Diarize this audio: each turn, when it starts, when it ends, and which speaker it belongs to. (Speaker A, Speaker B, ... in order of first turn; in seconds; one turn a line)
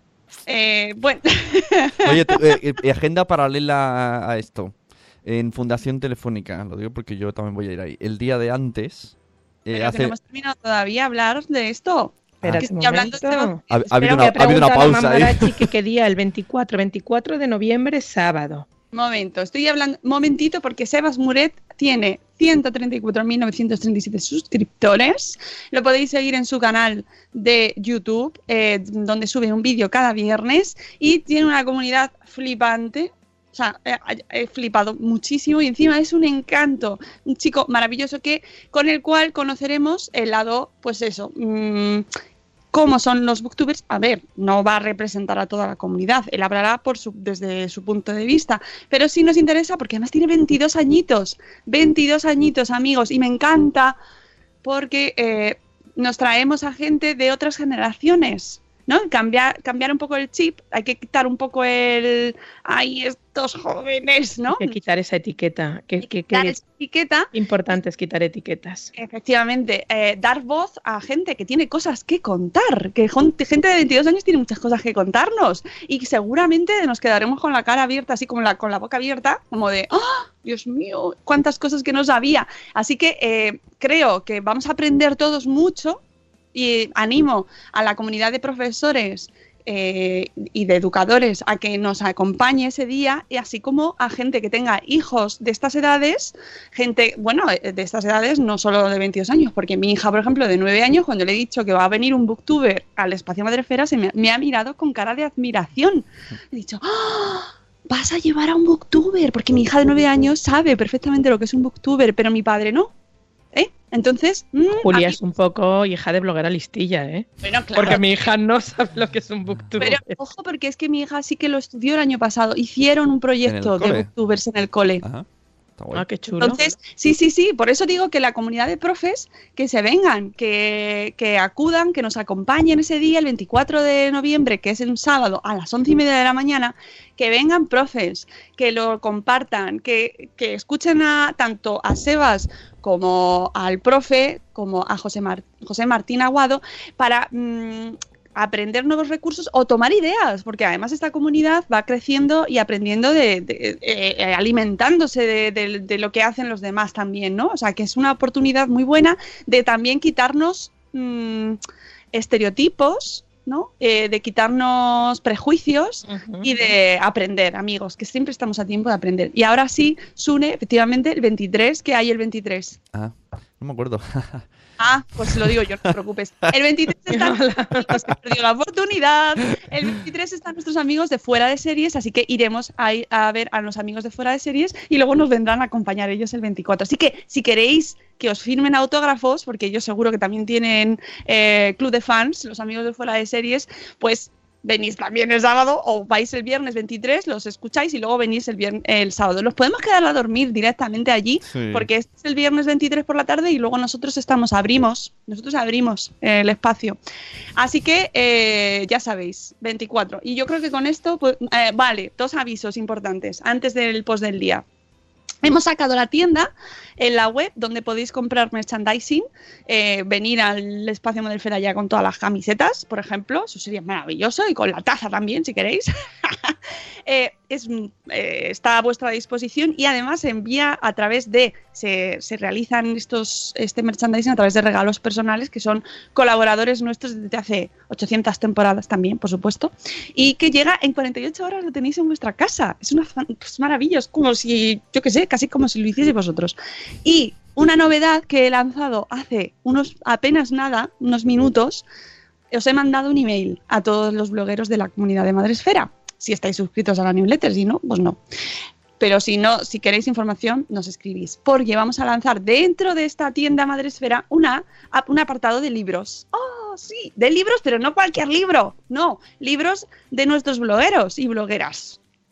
Speaker A: 0.5-2.4
Speaker B: 2.0-10.1
Speaker A: 9.7-14.6
Speaker B: 12.4-12.7
Speaker C: 12.4-18.7
Speaker B: 13.7-15.7
Speaker A: 18.9-42.0
Speaker A: 42.7-54.0
Speaker A: 54.6-64.8
Speaker C: 64.5-66.6
Speaker A: 66.3-67.3
Speaker C: 67.3-68.9
Speaker A: 69.0-86.0
Speaker A: 86.5-112.9
Speaker A: 113.5-115.2
Speaker C: 114.8-120.2
Speaker A: 117.4-118.0
Speaker A: 119.8-125.0
Speaker B: 123.5-124.1
Speaker B: 125.0-126.6
Speaker C: 125.9-126.6
Speaker A: 126.4-161.6
Speaker A: 162.1-172.8
Speaker C: 166.1-166.7
Speaker B: 172.9-174.5
Speaker A: 174.8-207.0
Speaker B: 175.3-175.6
Speaker C: 177.1-178.0
Speaker B: 201.5-201.9
Speaker A: 207.6-214.6
Speaker A: 215.4-226.6
Speaker A: 227.1-251.8
Speaker A: 252.5-258.2
Speaker A: 259.0-272.0